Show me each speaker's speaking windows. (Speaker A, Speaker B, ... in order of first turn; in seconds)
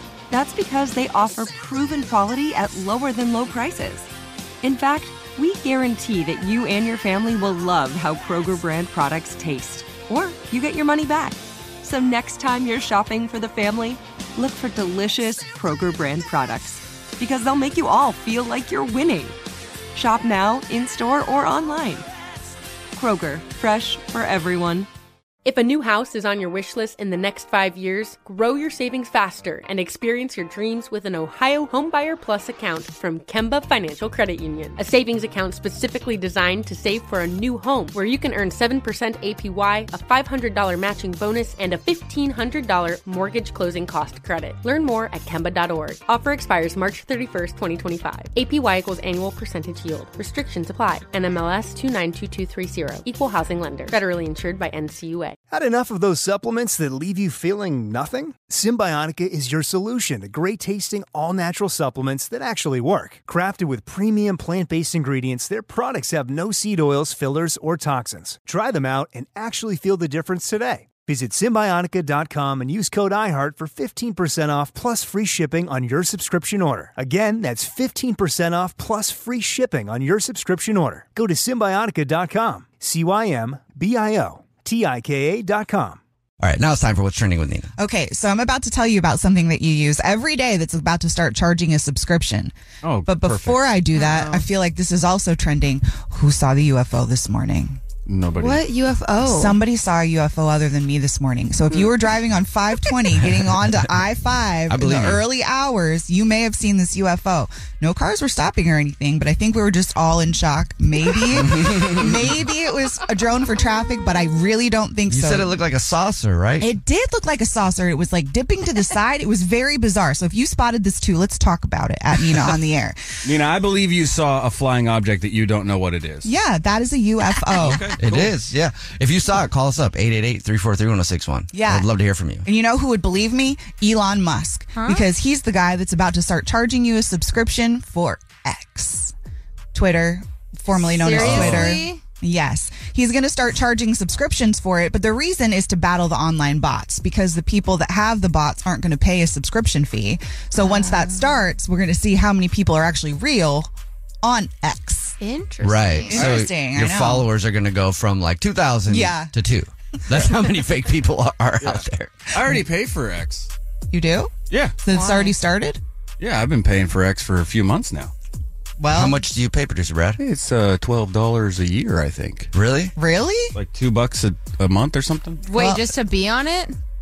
Speaker A: 0.3-4.1, 4.6-19.4, 19.9-22.1, 22.9-24.9
Speaker B: 25.4-55.4
Speaker C: 55.5-86.0
Speaker D: 86.4-87.7, 104.7-105.2, 115.1-116.7, 128.0-132.4, 141.1-141.8, 155.6-162.2, 168.9-170.2, 172.5-172.9
Speaker E: 87.8-92.5, 93.0-97.8, 99.2-115.5, 116.6-123.0, 126.2-128.0, 131.5-131.9, 132.4-139.1, 139.7-153.7, 154.2-155.2, 156.1-157.3, 158.9-159.3, 163.9-165.8, 168.8-169.2, 173.0-173.5, 175.5-175.9
Speaker F: 92.8-93.8, 98.1-98.7, 123.2-126.3, 127.6-128.3, 161.6-163.5, 164.5-164.8, 166.2-168.1, 170.2-172.5, 173.5-175.5
Speaker G: 93.9-94.5, 98.3-99.6, 134.8-135.1, 140.8-142.0, 150.6-151.4, 155.2-156.3, 164.9-165.4, 175.4-176.8